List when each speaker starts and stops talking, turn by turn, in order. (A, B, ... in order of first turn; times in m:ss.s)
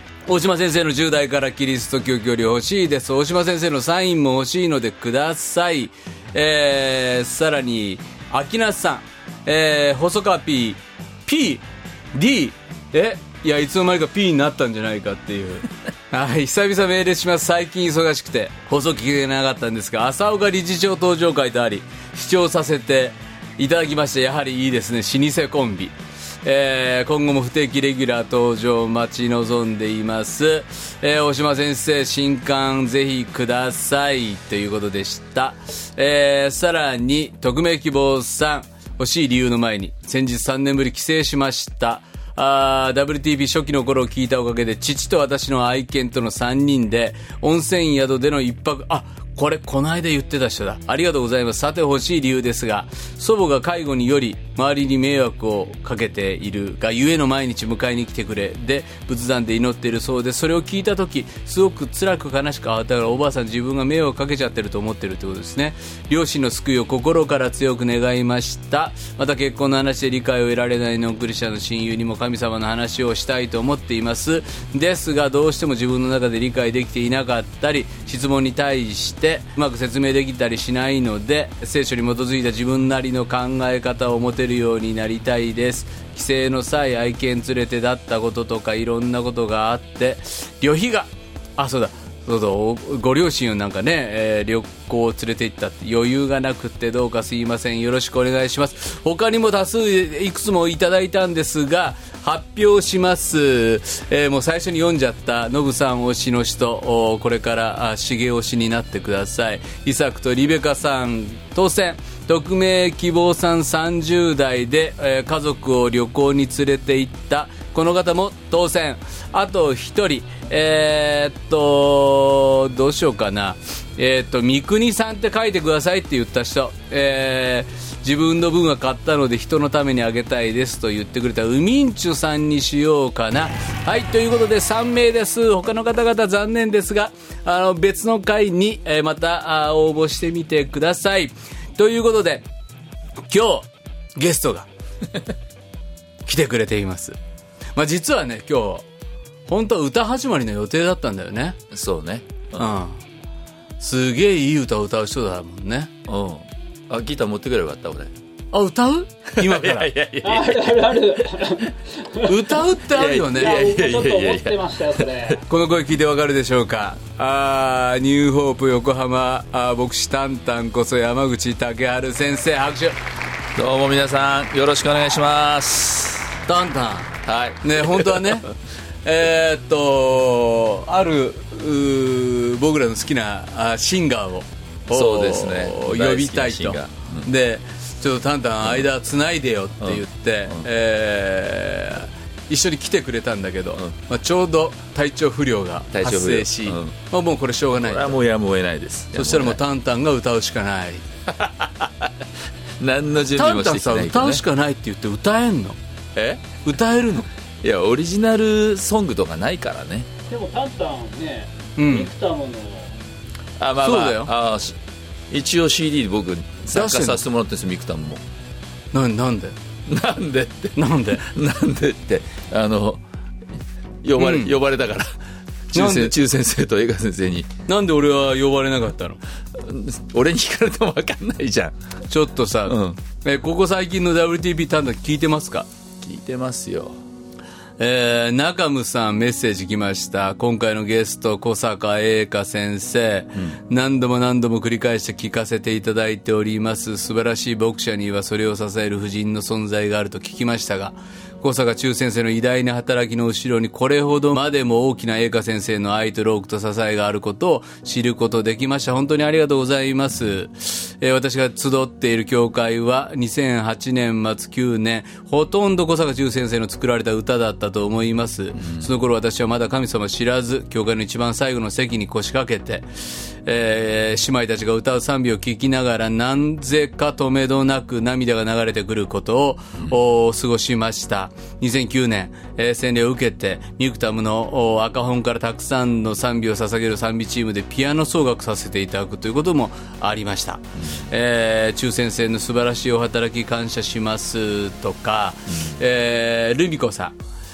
0:00.3-2:22.4 A
2:23.3-2:24.7 A
2:26.3-2:27.2 A
2:27.8-2:28.9 A
2:29.5-2:31.6 A
2:31.7-2:32.7 B
2:32.6-2:33.0 A
2:33.8-2:35.9 A
2:36.1-2:38.1 B
2:38.5-2:39.9 A
2:39.3-2:41.6 B
2:40.2-2:42.4 C
2:42.2-2:43.6 A
2:42.9-2:45.3 B
2:43.2-2:45.4 C
2:45.4-2:53.0 A
2:53.6-2:56.3 B
2:56.5-2:58.5 A
2:57.2-2:58.4 B
2:59.0-3:18.2 A
3:04.9-3:07.3 B
3:09.8-3:10.7 B
3:15.9-3:17.0 B
3:17.8-3:19.6 B
3:19.1-3:21.0 A
3:21.3-3:22.1 B
3:22.8-3:24.4 B
3:23.3-3:25.8 A
3:26.2-3:26.6 B
3:26.6-3:27.3 A
3:27.6-3:30.1 B
3:30.3-3:33.0 C
3:31.8-3:32.1 A
3:33.6-3:34.8 B
3:33.8-3:34.3 A
3:35.3-3:38.2 B
3:36.7-3:37.2 A
3:38.9-3:39.6 A
3:39.9-3:43.0 B
3:40.8-3:41.3 A
3:44.0-3:45.2 B
3:44.2-3:44.6 A
3:45.7-3:47.5 B
3:45.7-3:46.2 A
3:47.7-3:49.2 A
3:49.6-3:51.8 B
3:52.1-3:55.7 A
3:52.7-3:53.0 B
3:56.0-3:57.0 B
3:57.8-4:32.9 A
4:28.6-4:28.9 B
4:33.4-4:57.2 A
4:50.8-4:51.0 B
4:55.5-4:55.8 B